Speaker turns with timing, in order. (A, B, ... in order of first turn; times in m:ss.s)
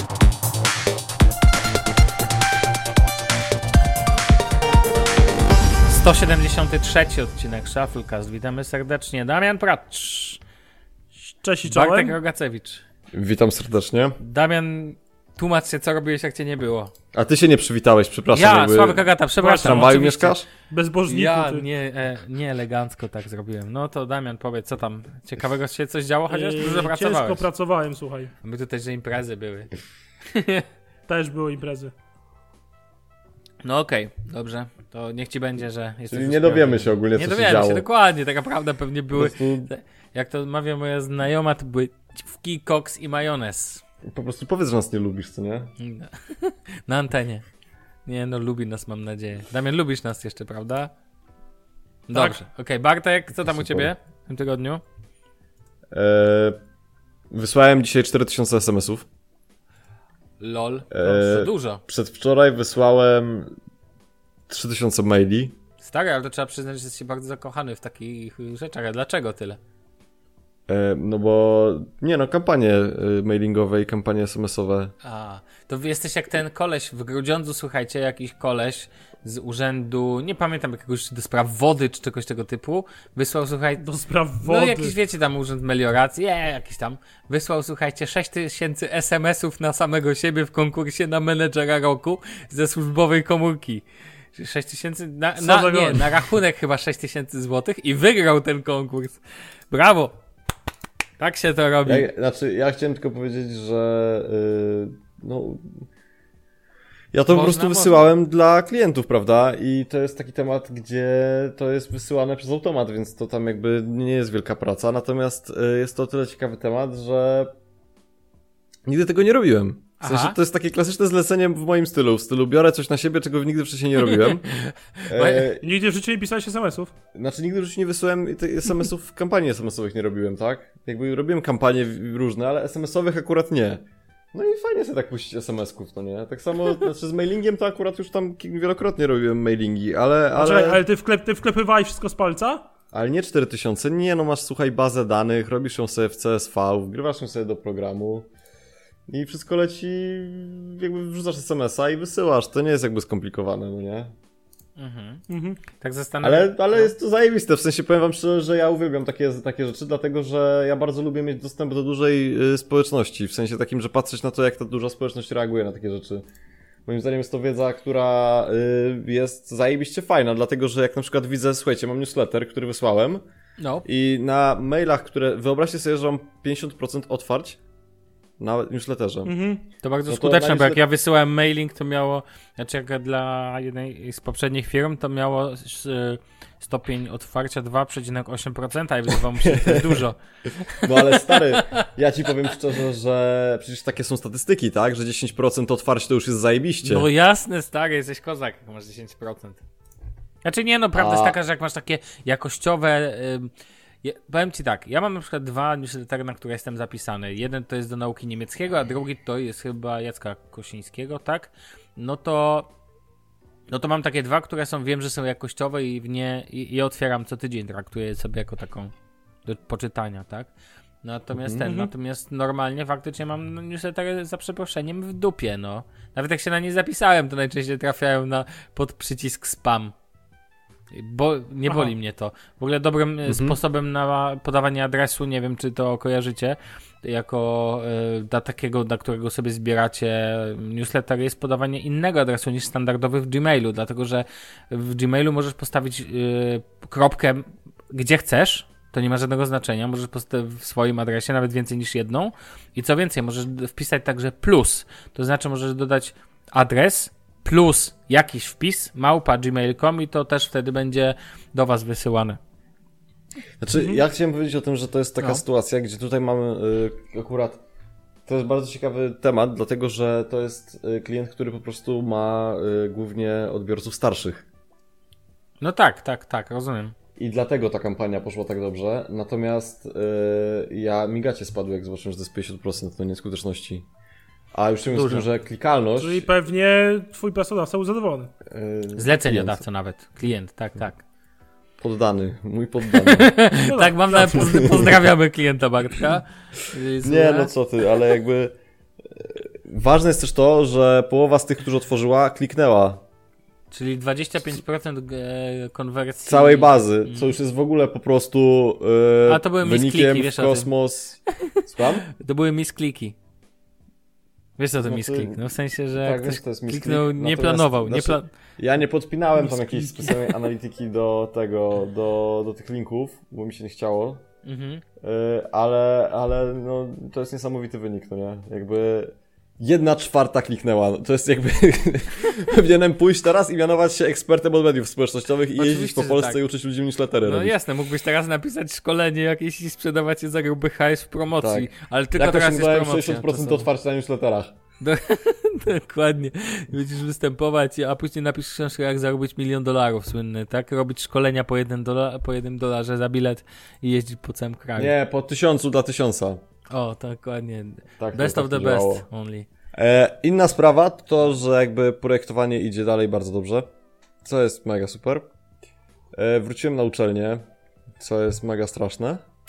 0:05.9-0:10.4 A
0:11.2-0:12.2 B
0:11.7-0:12.8 A
0:13.1-0:14.2 C
0:14.2-0:16.9 A
0:17.1-0:20.5 C
0:18.3-0:20.4 A
0:19.4-0:20.0 B
0:20.7-0:21.7 B
0:21.1-0:27.4 A
0:26.3-0:28.3 B
0:28.4-0:29.7 A
0:30.3-0:30.6 A
0:31.1-0:31.9 B
0:33.6-0:43.8 A
0:36.1-0:37.8 C
0:39.1-0:39.7 C
0:44.0-0:45.7 C
0:45.8-0:47.4 A
0:48.1-0:50.9 A
0:52.1-0:54.8 A
0:52.1-0:52.4 B
0:53.4-0:53.9 C
0:55.9-0:56.6 C
0:57.3-0:59.1 C
1:00.4-1:01.8 A
1:00.9-1:03.6 C
1:04.5-1:05.6 C
1:05.8-1:09.6 A
1:10.7-1:14.9 C
1:15.0-1:23.8 A
1:23.8-1:25.0 B
1:24.4-1:40.2 A
1:35.4-1:36.2 B
1:41.2-1:42.1 A
1:41.8-1:45.9 C
1:47.1-1:57.5 C
1:47.3-1:48.1 A
1:58.9-2:04.5 C
2:00.0-2:00.4 A
2:04.5-2:05.5 A
2:05.1-2:05.7 C
2:05.6-2:06.9 B
2:07.1-2:20.8 C
2:20.4-2:22.6 B
2:22.9-2:28.3 C
2:29.1-2:34.1 C
2:34.8-2:35.2 A
2:35.3-2:35.6 B
2:35.8-2:36.9 A
2:36.2-2:46.2 C
2:46.9-2:53.2 C
2:53.6-2:53.9 A
2:53.8-2:57.6 C
2:58.4-2:59.4 C
2:59.2-2:59.6 B
2:59.8-3:11.8 A
3:00.1-3:00.8 C
3:09.4-3:10.0 C
3:10.8-3:17.1 C
3:16.8-3:19.6 A
3:20.4-3:23.5 A
3:21.0-3:21.4 C
3:24.0-3:32.7 A
3:33.7-3:38.9 A
3:39.5-3:40.5 A
3:41.0-3:49.9 A
3:41.4-3:41.7 C
3:50.9-4:22.4 A
3:53.3-3:53.6 C
4:23.6-4:27.6 C
4:28.3-4:34.4 C
4:35.6-4:36.9 A
4:37.2-4:43.9 C
4:44.5-4:46.3 C
4:44.9-4:45.3 A
4:46.0-4:48.3 B
4:48.5-4:49.6 C
4:49.0-4:51.0 A
4:51.8-4:53.3 C
4:53.0-4:57.5 A
4:53.6-4:54.7 B
4:54.2-4:55.0 C
4:57.0-4:58.6 C
4:59.1-5:03.0 C
5:03.7-5:07.3 A
5:06.3-5:12.1 C
5:09.3-5:10.7 A
5:12.2-5:13.2 A
5:14.6-5:18.3 A
5:14.8-5:15.4 C
5:16.0-5:24.2 C
5:24.4-5:24.8 A
5:25.0-5:37.6 C
5:35.6-5:36.4 A
5:37.2-5:43.7 A
5:41.4-5:44.6 C
5:44.8-5:54.9 A
5:54.8-5:56.4 C
5:56.7-5:59.5 A
5:58.0-5:59.1 C
5:59.7-6:03.7 C
6:04.2-6:05.3 C
6:06.1-6:07.5 C
6:08.0-6:09.2 C